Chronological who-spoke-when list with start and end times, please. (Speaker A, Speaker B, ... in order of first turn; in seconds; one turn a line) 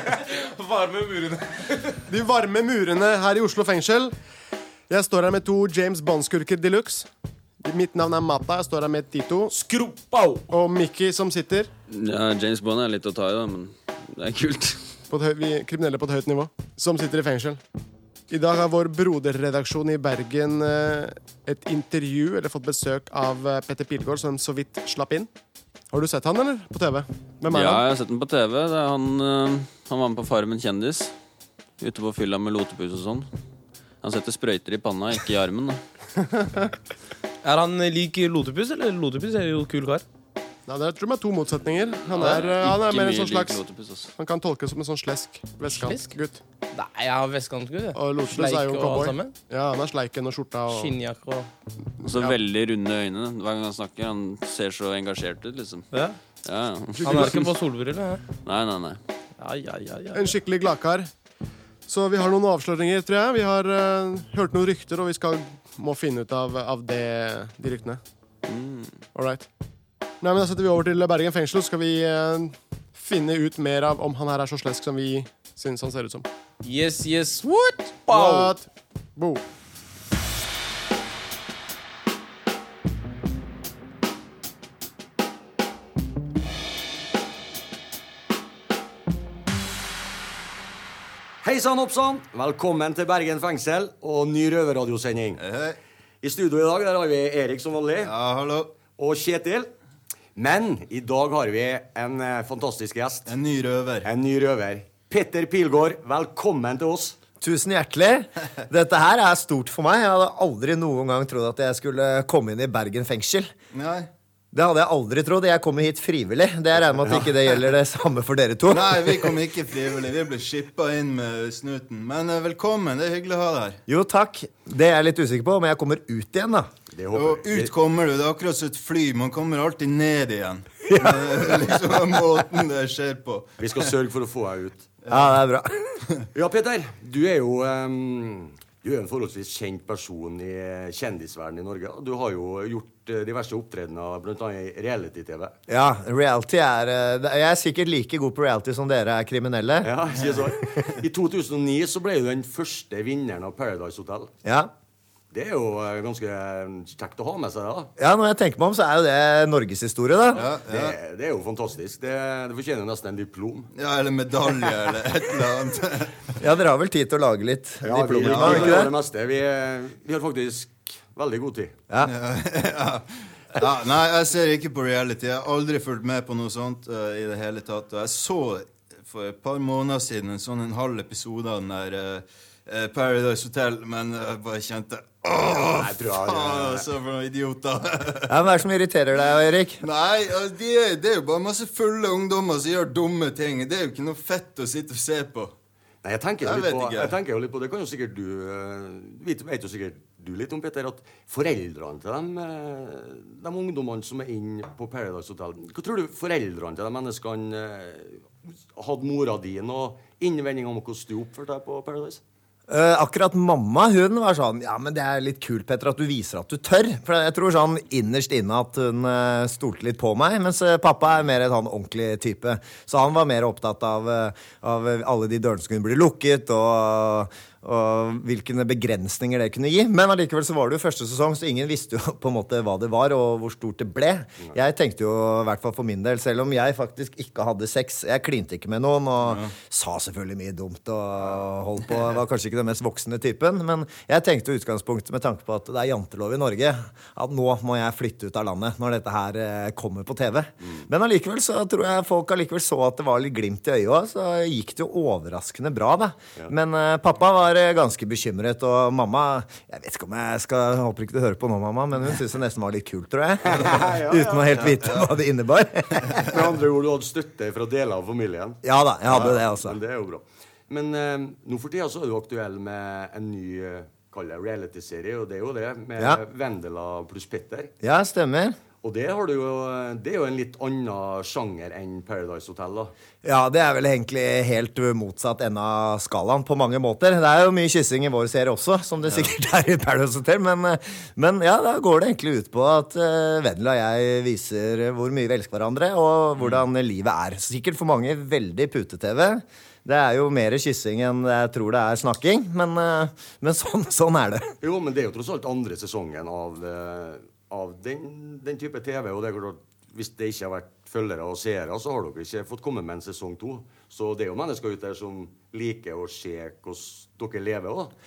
Speaker A: 0.2-2.0
Speaker B: 2.1-4.2
Speaker B: 4.9-7.1
Speaker B: 7.6-9.5
Speaker A: 9.5-10.4
Speaker B: 10.5-11.7
Speaker C: 11.9-15.0
Speaker B: 15.1-17.6
Speaker B: 18.3-25.3
Speaker B: 25.9-27.8
Speaker C: 27.5-31.1
Speaker C: 31.8-33.3
Speaker C: 34.0-35.8
Speaker A: 37.4-40.0
Speaker B: 40.7-43.6
Speaker C: 42.1-44.1
Speaker B: 44.1-46.4
Speaker A: 45.7-46.2
Speaker A: 46.7-49.4
Speaker B: 48.0-51.0
Speaker A: 50.7-51.5
Speaker C: 52.0-55.9
Speaker B: 52.0-52.4
Speaker A: 55.9-56.2
Speaker C: 56.4-57.5
Speaker A: 57.0-58.2
Speaker B: 57.0-57.4
Speaker C: 58.4-59.0
Speaker A: 59.4-60.4
Speaker B: 60.1-61.1
Speaker B: 61.9-68.0
Speaker C: 68.4-69.0
Speaker B: 69.1-69.5
Speaker B: 70.2-76.2
Speaker A: 76.6-78.5
Speaker B: 78.1-79.4
Speaker D: 91.4-95.4
Speaker E: 95.4-95.8
Speaker D: 96.2-98.1
Speaker E: 98.0-98.7
Speaker D: 99.0-99.7
Speaker D: 100.3-103.3
Speaker E: 103.3-104.1
Speaker D: 104.0-107.2
Speaker F: 107.4-113.5
Speaker E: 113.7-114.1
Speaker F: 114.5-119.3
Speaker E: 118.7-123.8
Speaker F: 123.9-126.7
Speaker D: 126.9-127.7
Speaker E: 127.1-133.6
Speaker F: 130.9-131.9
Speaker D: 133.6-134.9
Speaker E: 135.0-135.3
Speaker F: 135.1-136.0
Speaker D: 136.3-145.6
Speaker F: 145.7-149.9
Speaker D: 149.8-154.3
Speaker F: 154.4-154.7
Speaker D: 155.3-157.9
Speaker F: 158.0-160.4
Speaker E: 160.3-160.9
Speaker D: 160.6-163.7
Speaker E: 163.7-166.4
Speaker F: 166.4-168.9
Speaker D: 167.8-171.8
Speaker E: 168.2-168.8
Speaker E: 172.0-188.5
Speaker D: 185.7-186.9
Speaker F: 188.3-189.8
Speaker E: 189.8-195.5
Speaker D: 196.0-212.2
Speaker E: 196.4-197.1
Speaker F: 212.7-266.3
Speaker E: 239.2-239.5
Speaker D: 250.6-250.9
Speaker D: 263.4-264.7
Speaker E: 264.6-265.1
Speaker E: 266.0-266.3
Speaker D: 266.2-277.7
Speaker F: 268.6-269.8
Speaker F: 277.8-278.6
Speaker D: 278.8-282.9
Speaker F: 283.2-304.5
Speaker D: 304.6-317.9